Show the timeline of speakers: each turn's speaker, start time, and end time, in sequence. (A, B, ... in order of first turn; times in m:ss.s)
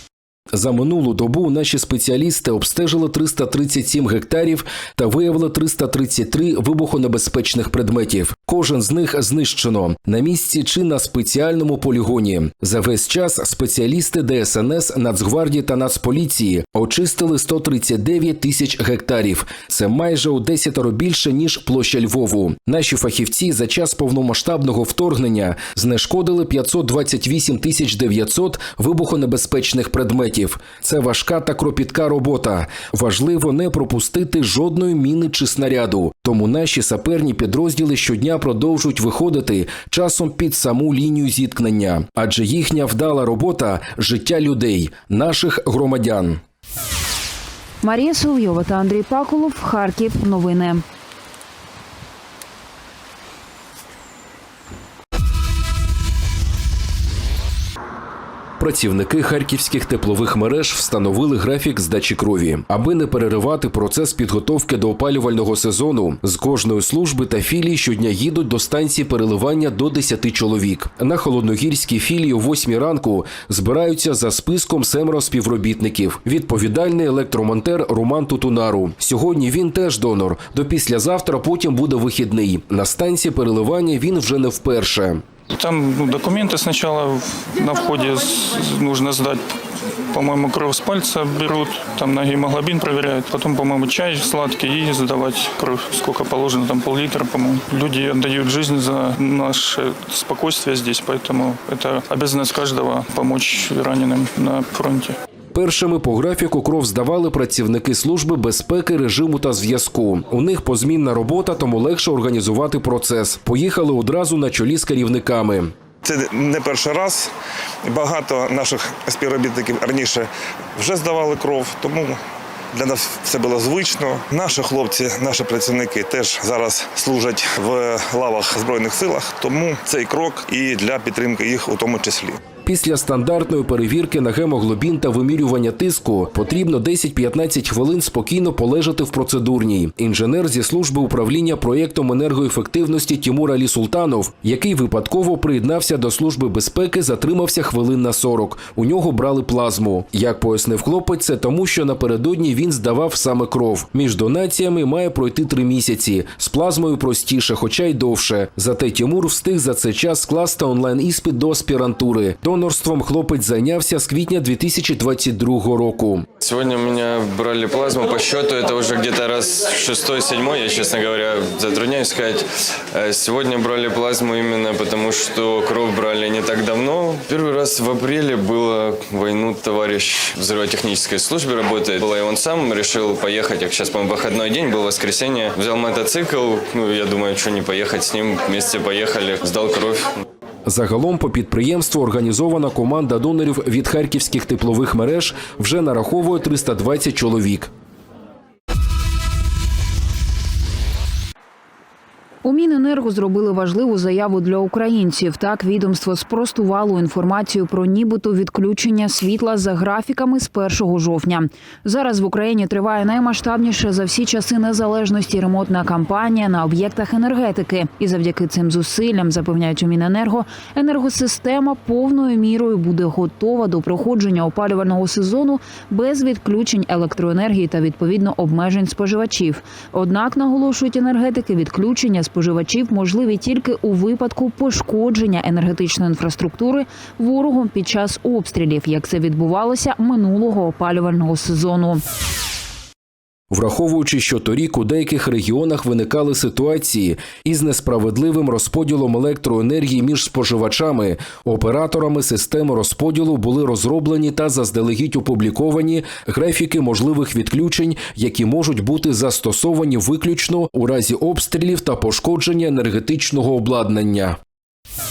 0:00.5-0:46.4 A
0:47.8-0:50.8 B
0:58.6-1:25.2 A
1:25.6-1:29.4 C
1:30.1-1:45.2 C
1:45.5-1:55.7 A
1:56.1-1:57.2 D
1:58.0-2:00.2 D
2:00.8-2:02.1 D
2:02.8-2:12.3 D
2:12.6-2:46.3 A
2:46.4-3:10.1 E
3:10.7-3:17.7 A
3:22.4-4:02.0 B
4:03.5-4:24.4 A